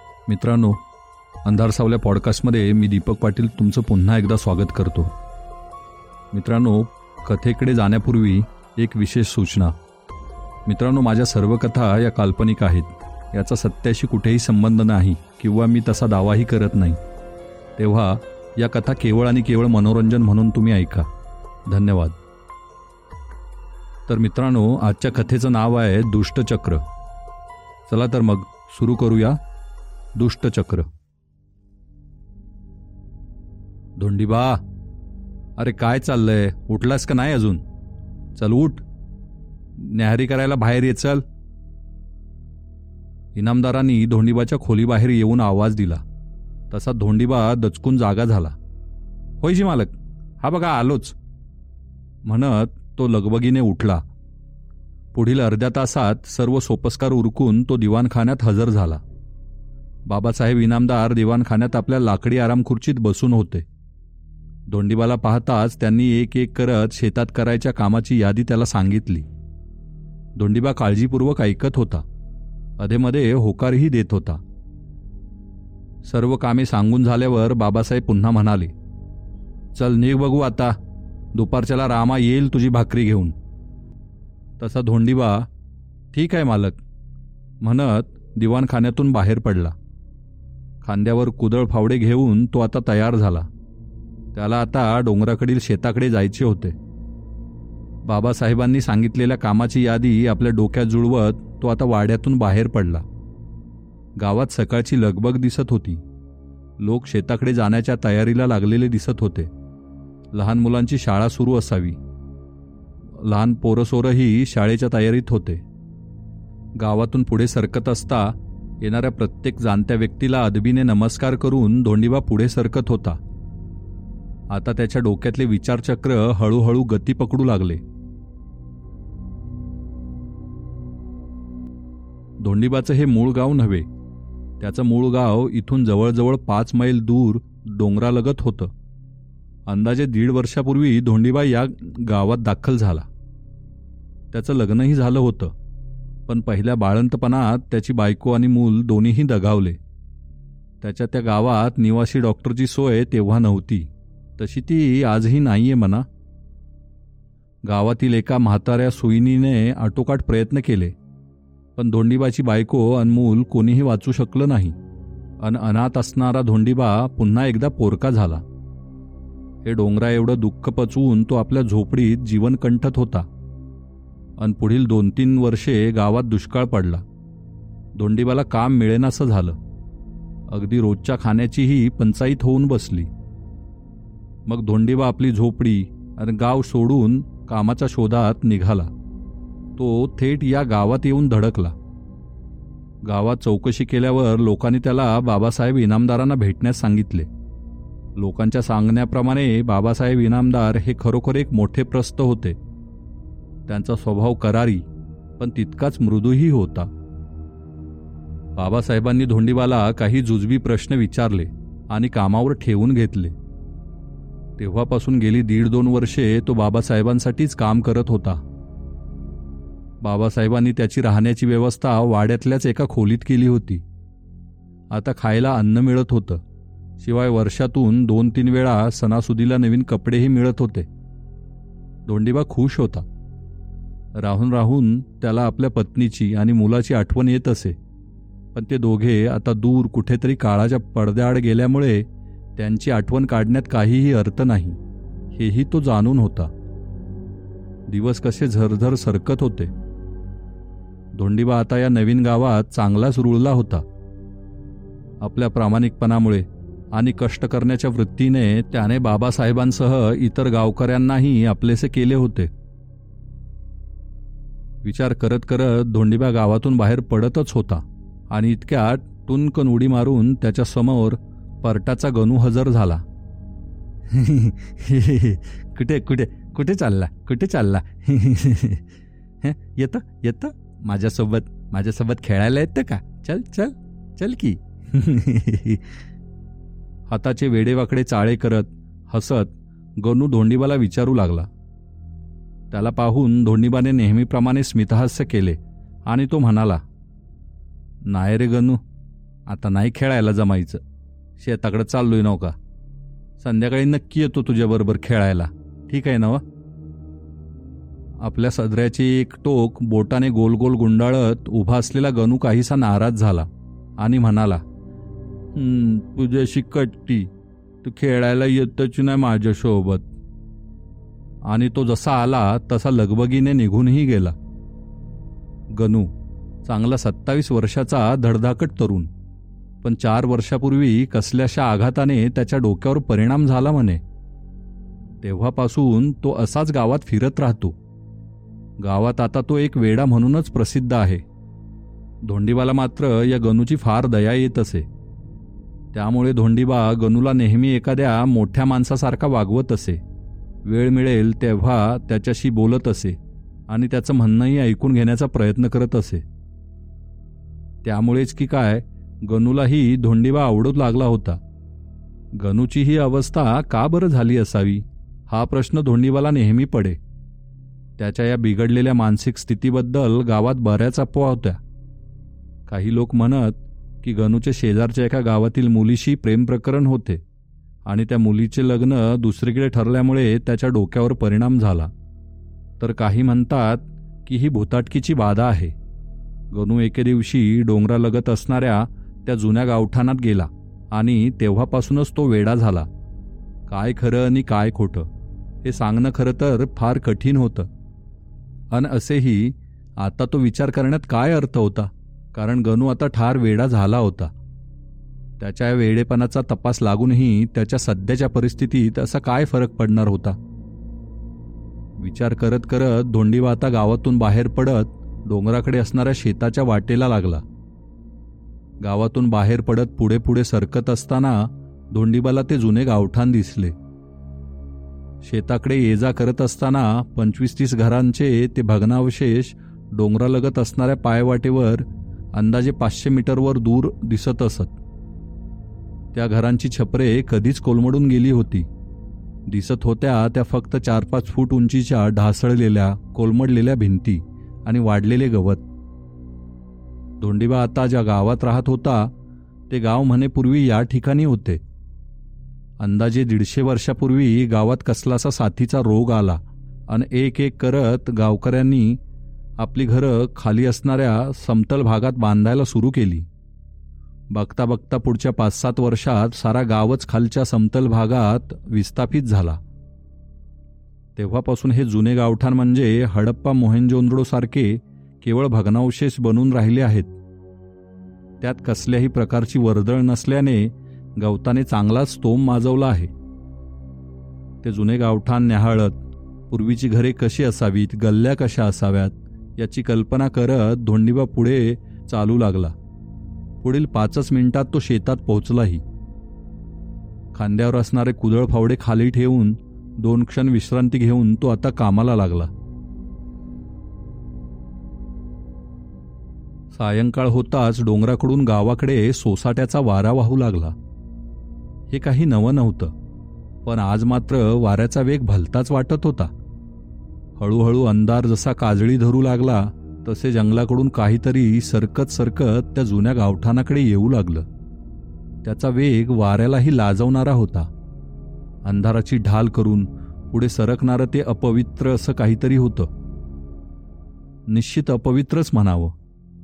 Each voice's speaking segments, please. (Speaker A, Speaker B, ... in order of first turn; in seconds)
Speaker A: 0.3-0.8, 1.4-5.1, 6.3-9.8, 10.7-17.0, 17.8-21.1, 21.7-22.2, 24.1-26.8, 27.9-29.4, 30.1-30.9, 34.0-34.6, 35.6-37.6, 38.4-38.8, 39.8-41.2, 43.3-46.0, 46.7-48.6, 49.4-51.2, 52.2-54.0, 55.1-59.0, 60.1-63.6, 64.7-69.3, 70.4-72.0, 72.8-74.4, 76.0-78.7, 79.7-80.8, 81.3-83.4, 84.6-85.5, 86.1-86.8, 87.6-89.8, 90.8-93.5, 94.3-96.8, 98.0-103.0, 104.2-106.0, 106.8-109.5, 110.3-112.0, 113.2-115.6, 116.8-123.2, 124.5-127.8, 132.4-133.9, 134.6-138.7, 139.7-143.1, 144.3-145.6, 146.3-149.8, 150.8-156.1, 157.7-160.9, 161.8-164.8, 165.4-168.4, 169.6-173.3, 174.4-177.0, 178.0-179.6, 180.5-183.1, 184.5-188.9, 189.8-191.8, 193.0-197.3, 198.2-202.6, 203.7-204.9, 205.4-206.9, 208.6-213.3, 214.6-218.4, 220.0-223.8, 224.9-226.4, 227.0-230.9, 232.1-233.1, 234.2-237.8, 238.5-244.8, 245.3-246.5, 247.9-249.7, 251.2-253.8, 255.2-262.5, 264.8-273.0, 274.1-278.9, 279.4-285.9, 287.1-291.5, 292.7-296.8, 298.1-298.8, 299.5-300.8, 301.4-302.6, 303.4-306.4, 308.2-314.6, 315.5-317.3, 317.8-320.1, 321.5-324.4, 325.7-326.1, 326.6-329.1, 329.8-334.0, 335.2-337.8, 338.8-341.2, 342.2-344.9, 345.9-350.0, 350.6-356.2, 357.8-361.4, 362.4-367.0, 368.0-371.6, 372.7-377.2, 377.9-381.9, 382.8-385.8, 386.5-392.9, 393.7-395.1, 395.6-397.7, 398.7-404.3, 405.4-410.4, 412.0-417.4, 418.8-423.8, 425.2-434.8, 436.1-438.7, 439.5-445.6, 447.2-449.1, 449.7-451.6, 452.8-459.0, 459.6-463.3, 464.3-469.6, 471.2-477.1, 478.4-483.1, 484.6-492.7, 493.6-495.8, 497.3-502.5, 506.7-510.8, 511.9-512.9, 513.6-516.3, 517.4-524.5, 525.4-527.7, 528.6-532.9, 534.5-536.0